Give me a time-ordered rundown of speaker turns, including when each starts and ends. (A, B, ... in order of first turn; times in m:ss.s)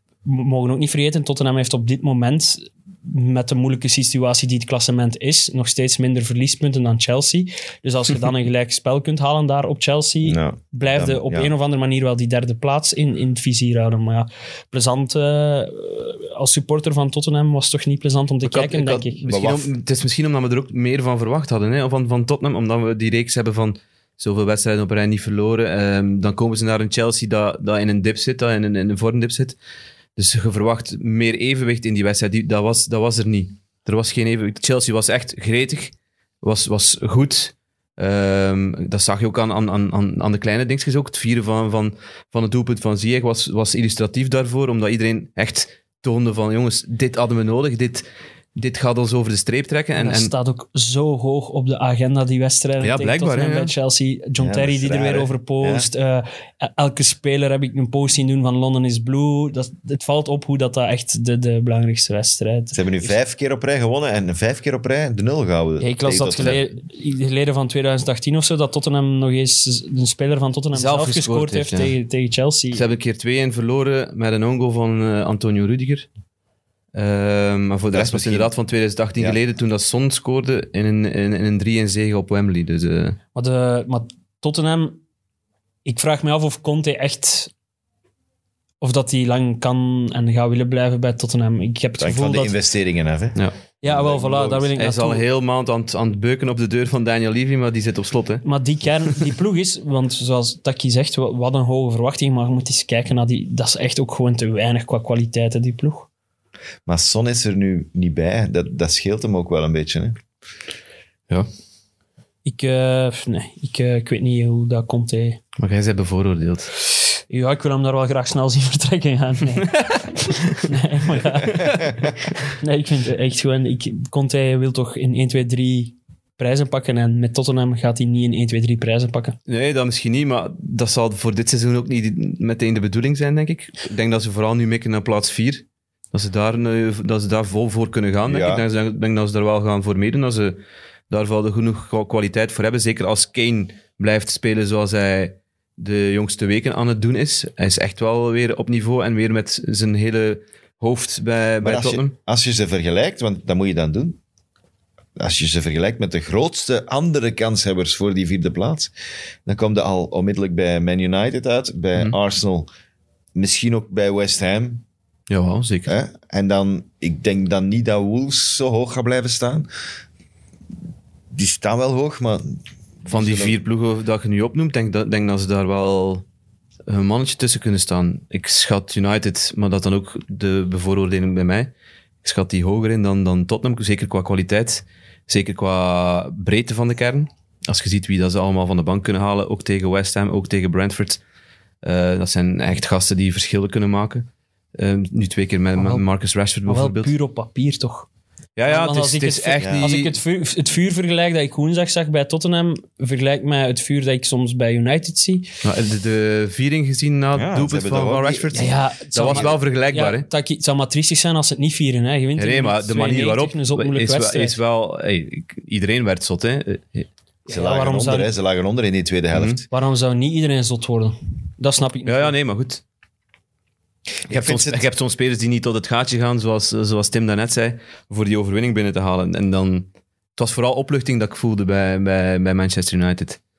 0:00.2-0:19.2 A
0:10.2-0:11.5 B
0:18.4-0:29.6 C
0:19.3-0:19.7 B
0:30.2-0:48.0 C
0:48.6-0:50.3 C
0:50.0-1:03.1 A
0:52.8-0:53.7 C
0:54.4-0:55.9 B
1:02.7-1:06.6 B
1:05.8-1:12.8 A
1:10.7-1:11.9 C
1:12.7-1:16.1 C
1:16.9-1:23.2 C
1:17.9-1:18.5 B
1:23.4-1:25.0 A
1:25.8-1:27.5 A
1:28.8-1:32.6 A
1:32.0-1:34.7 B
1:33.8-1:35.2 A
1:34.8-1:38.4 C
1:38.4-1:46.1 A
1:46.9-1:50.2 B
1:52.4-1:55.4 A
1:55.6-1:56.7 C
1:57.3-2:09.4 A
1:59.6-2:00.4 C
2:09.5-2:20.6 C
2:18.2-2:18.6 B
2:21.1-2:32.1 C
2:31.6-2:34.2 B
2:35.2-2:38.9 B
2:39.4-2:42.7 B
2:43.4-2:44.8 B
2:45.3-2:45.9 C
2:45.9-2:49.7 B
2:51.3-2:53.6 B
2:53.1-2:56.2 C
2:56.9-3:01.7 C
3:02.2-3:11.2 C
3:11.8-3:17.1 C
3:15.8-3:16.0 A
3:16.7-3:18.1 A
3:18.6-3:20.2 C
3:18.6-3:25.5 A
3:19.6-3:19.9 B
3:25.6-3:30.3 C
3:27.3-3:29.6 B
3:28.5-3:34.6 A
3:32.4-3:37.1 C
3:37.4-3:38.3 A
3:37.5-3:39.6 B
3:39.3-3:39.6 C
3:39.7-3:42.3 A
3:42.0-3:42.8 C
3:44.2-3:44.8 B
3:44.3-3:53.4 C